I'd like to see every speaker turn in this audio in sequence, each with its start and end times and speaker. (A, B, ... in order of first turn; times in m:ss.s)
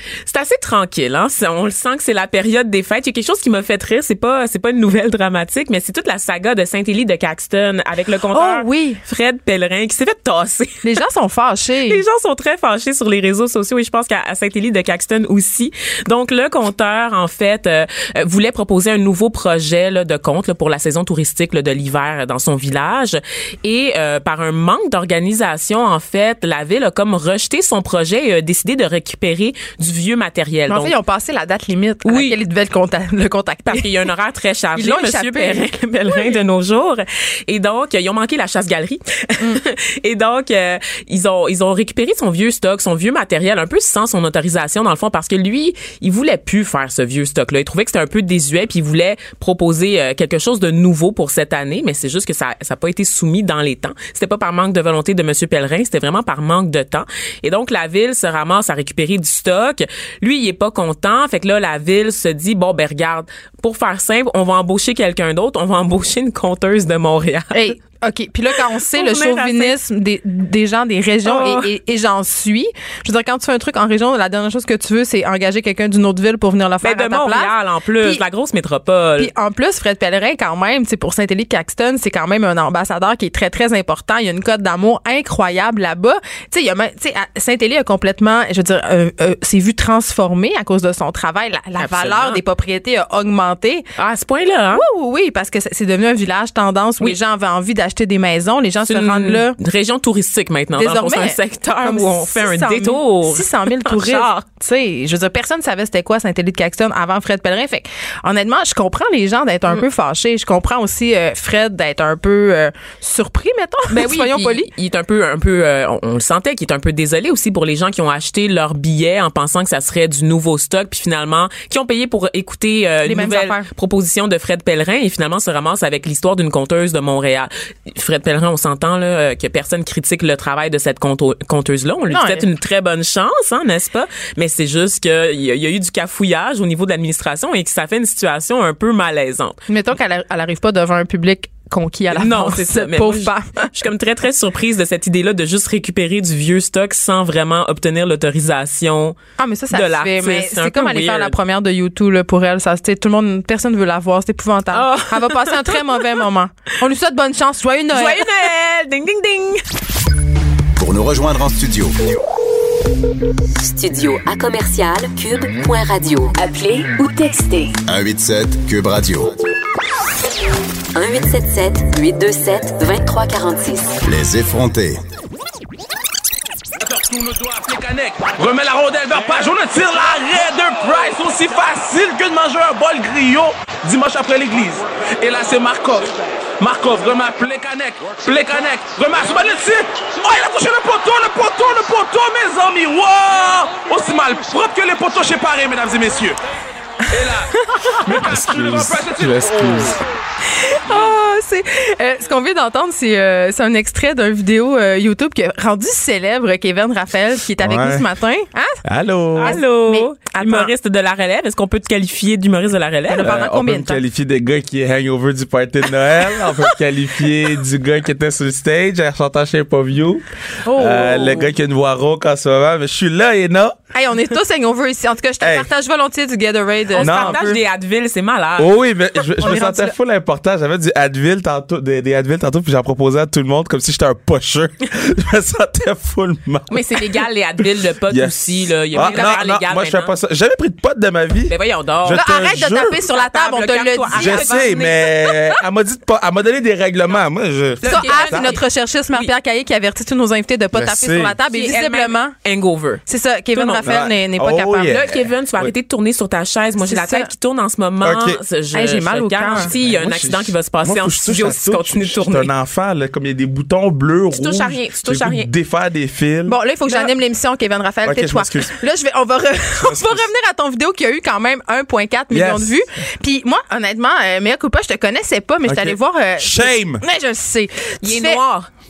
0:00.2-0:10.9 A
0:08.3-0:09.0 B
0:10.8-0:12.0 B
0:11.9-0:30.9 A
0:30.7-0:33.9 B
0:32.0-0:32.4 A
0:33.7-1:07.7 A
0:34.8-0:35.7 B
1:07.5-1:18.2 B
1:08.9-1:09.7 A
1:11.2-1:11.7 A
1:16.8-1:19.3 A
1:19.2-1:33.9 B
1:31.8-1:32.4 A
1:34.0-1:34.8 A
1:34.7-1:39.6 B
1:38.8-1:44.4 A
1:40.8-1:54.7 B
1:53.9-2:19.6 A
2:03.0-2:03.7 B
2:12.1-2:12.4 B
2:19.7-2:23.7 B
2:22.1-2:29.2 A
2:29.4-2:38.3 B
2:29.7-2:31.4 A
2:34.7-2:36.2 A
2:37.9-2:39.6 A
2:40.8-2:42.0 C
2:43.6-2:47.8 D
2:47.9-2:49.3 C
2:50.9-2:54.0 D
2:54.0-2:55.0 C
2:56.8-3:16.4 E
3:17.0-3:20.0 E
3:18.2-3:20.0 F
3:20.5-3:28.8 B
3:27.6-3:28.1 F
3:28.8-3:29.6 F
3:29.4-3:30.7 B
3:29.4-3:33.4 A
3:33.1-3:34.0 B
3:33.2-3:43.8 F
3:36.5-3:36.7 A
3:40.6-3:41.5 B
3:43.9-3:47.3 B
3:45.4-3:45.7 F
3:46.9-3:48.7 A
3:47.0-3:47.6 F
3:48.6-3:57.1 F
3:49.4-3:49.9 B
3:56.7-4:00.1 A
3:58.1-4:02.9 F
3:58.9-3:59.3 B
4:01.5-4:05.6 A
4:02.1-4:04.6 B
4:04.1-4:08.5 F
4:07.8-4:09.3 A
4:07.8-4:12.3 B
4:10.7-4:11.4 F
4:11.5-4:13.9 A
4:13.1-4:14.9 B
4:13.8-4:15.7 F
4:14.9-4:22.5 A
4:16.8-4:17.3 B
4:18.0-4:18.4 F
4:18.7-4:19.7 B
4:19.5-4:26.6 F
4:24.3-4:25.5 A
4:26.4-4:38.4 B
4:28.0-4:28.8 F
4:29.8-4:30.3 F
4:32.3-4:32.7 F
4:35.6-4:37.0 F
4:38.0-4:38.7 A